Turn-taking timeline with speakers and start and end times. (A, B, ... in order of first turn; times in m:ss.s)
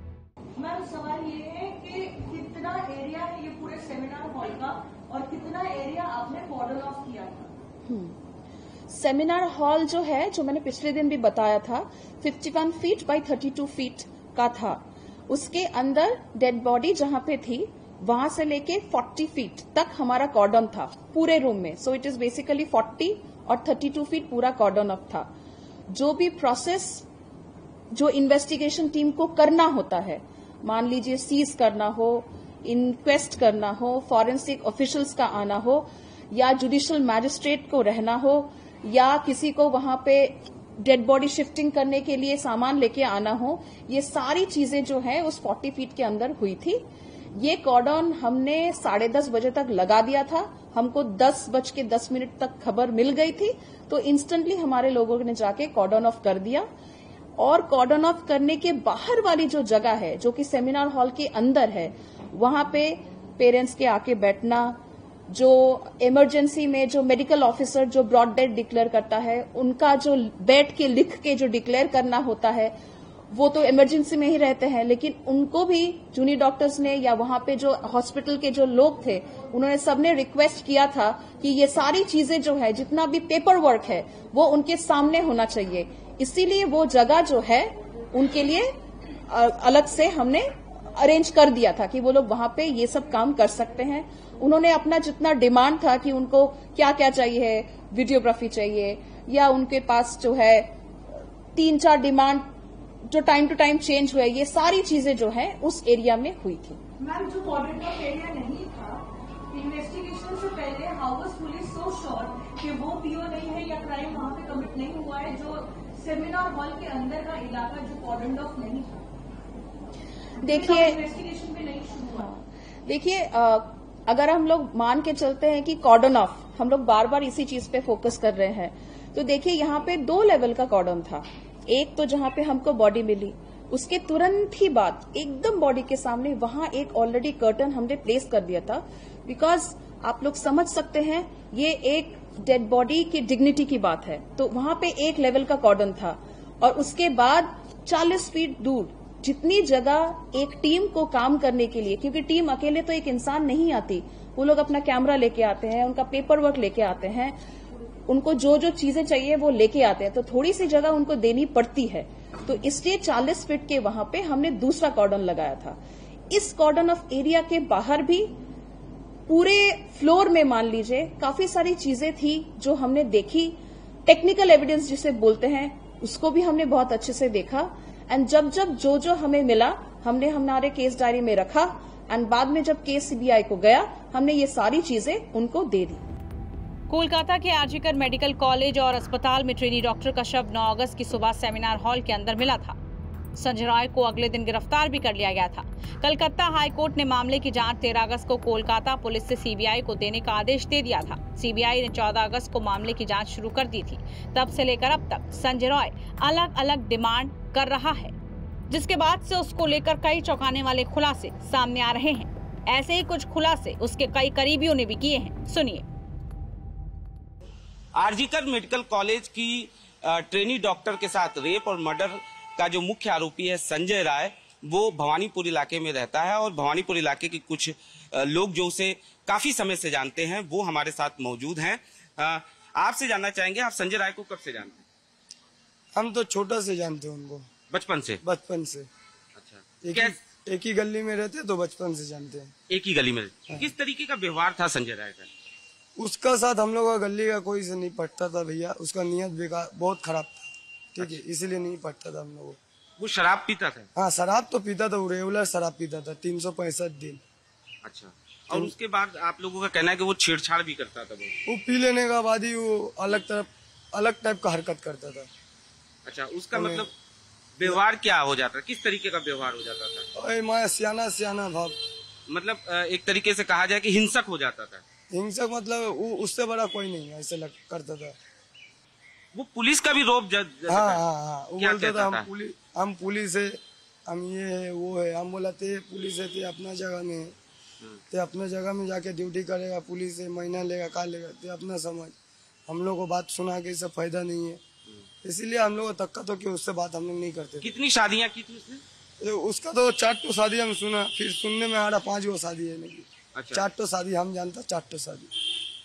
0:00.6-0:07.5 A
0:07.9-0:08.2 B
0:08.9-0:25.3 B
0:25.9-0:27.0 B
0:27.9-0:46.8 B
0:47.4-0:56.7 B
0:57.4-1:04.8 B
1:05.3-1:12.7 B
1:13.3-1:28.7 B
1:29.3-1:42.4 B
1:43.1-1:46.8 B
1:47.0-1:59.1 A
2:00.4-2:01.0 B
2:00.5-2:02.3 A
2:02.2-2:37.4 B
2:38.1-2:45.8 B
2:46.3-2:48.3 B
2:49.3-3:06.0 B
3:06.9-3:12.8 C
3:13.4-3:28.2 C
3:28.7-3:35.8 C
3:38.0-3:54.8 D
3:56.0-3:57.5 E
3:57.7-3:58.2 D
3:58.2-3:58.9 E
3:59.4-4:00.2 D
3:59.8-4:02.6 E
4:02.7-4:05.3 D
4:06.0-4:12.6 E
4:13.0-4:13.9 D
4:14.0-4:17.2 E
4:17.8-4:21.4 D
4:21.5-4:25.3 E
4:26.0-4:26.9 D
4:26.5-4:26.9 E
4:27.6-4:30.1 D
4:30.2-4:31.8 E
4:32.3-4:34.8 D
4:35.1-4:38.2 E
4:39.3-4:41.0 D
4:40.7-4:43.6 E
4:41.6-4:42.3 D
4:44.1-4:47.3 E
4:48.1-4:52.2 E
4:52.7-4:54.6 E
4:55.2-4:57.7 E
4:57.6-4:58.8 D
4:59.2-5:05.3 E
5:03.4-5:03.7 D